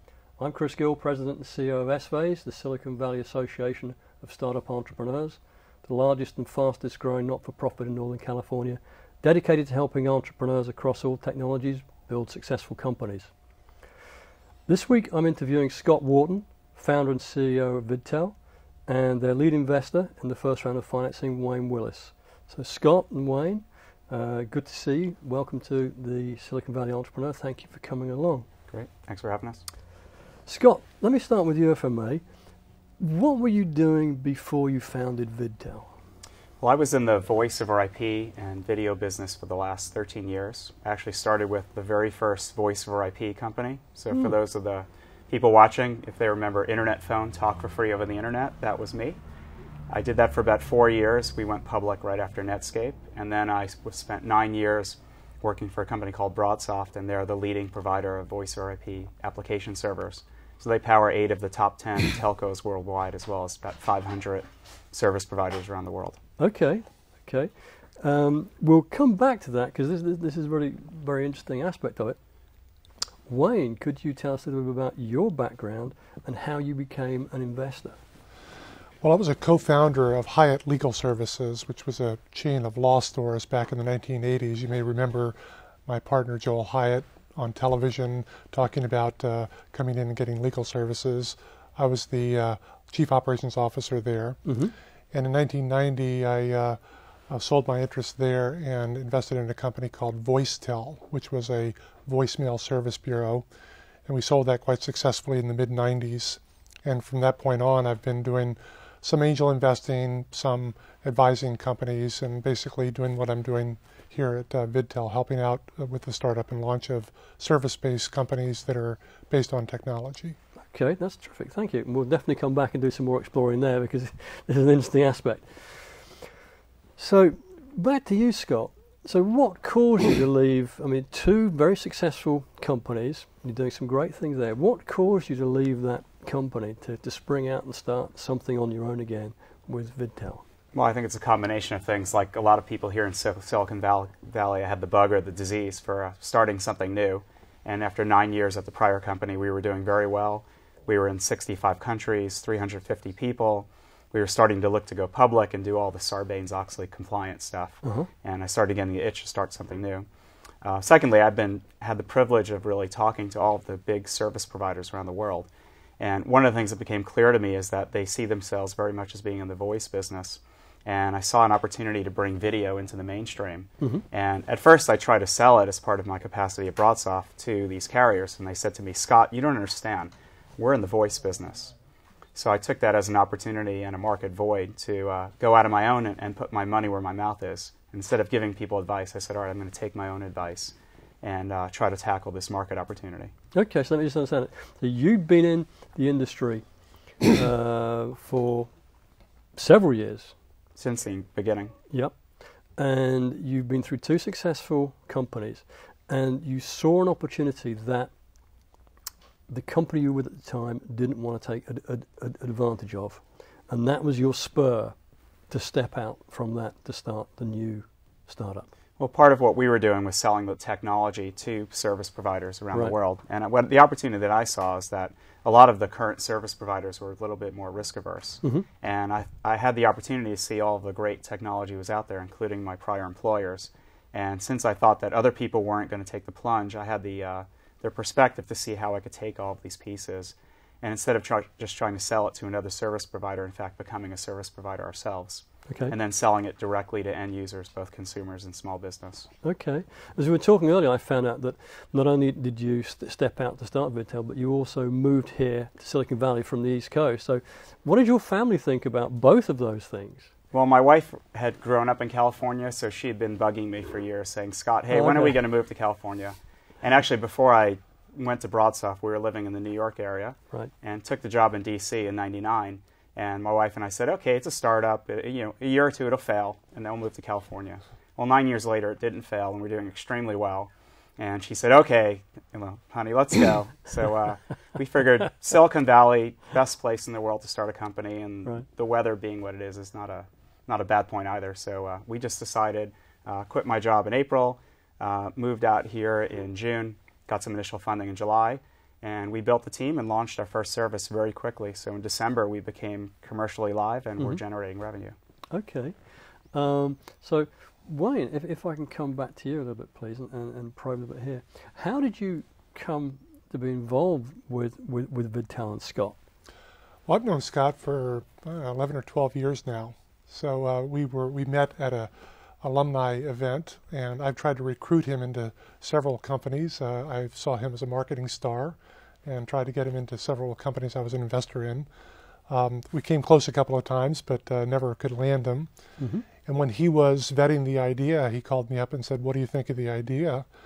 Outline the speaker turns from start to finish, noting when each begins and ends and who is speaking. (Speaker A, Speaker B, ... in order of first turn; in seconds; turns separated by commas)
Speaker A: 0.4-13.3, Speaker A: 14.7-18.4, Speaker A: 18.9-28.5, Speaker B: 28.7-29.6, Speaker A: 30.5-32.2, Speaker A: 33.0-35.9, Speaker B: 36.6-49.2, Speaker B: 49.9-66.2, Speaker A: 66.4-72.2, Speaker A: 73.3-78.0, Speaker C: 79.0-85.3, Speaker C: 85.9-94.5, Speaker A: 94.5-94.7, Speaker C: 95.1-103.5, Speaker C: 104.1-120.4, Speaker A: 120.7-126.3, Speaker A: 127.0-140.4, Speaker B: 140.7-160.1, Speaker A: 157.8-158.1, Speaker B: 160.6-165.5, Speaker B: 166.0-181.7, Speaker B: 182.3-193.3, Speaker A: 193.5-196.6, Speaker A: 197.2-198.7, Speaker A: 199.6-200.3, Speaker B: 200.8-201.8, Speaker A: 201.9-202.2, Speaker A: 202.8-208.1, Speaker A: 209.5-215.0, Speaker A: 215.5-218.7, Speaker B: 219.0-249.3, Speaker A: 245.7-245.9, Speaker A: 249.4-260.3, Speaker B: 260.5-305.1, Speaker A: 264.9-265.4, Speaker A: 305.5-316.2, Speaker C: 317.1-331.9, Speaker C: 332.5-335.7, Speaker A: 336.0-336.3, Speaker C: 336.4-340.5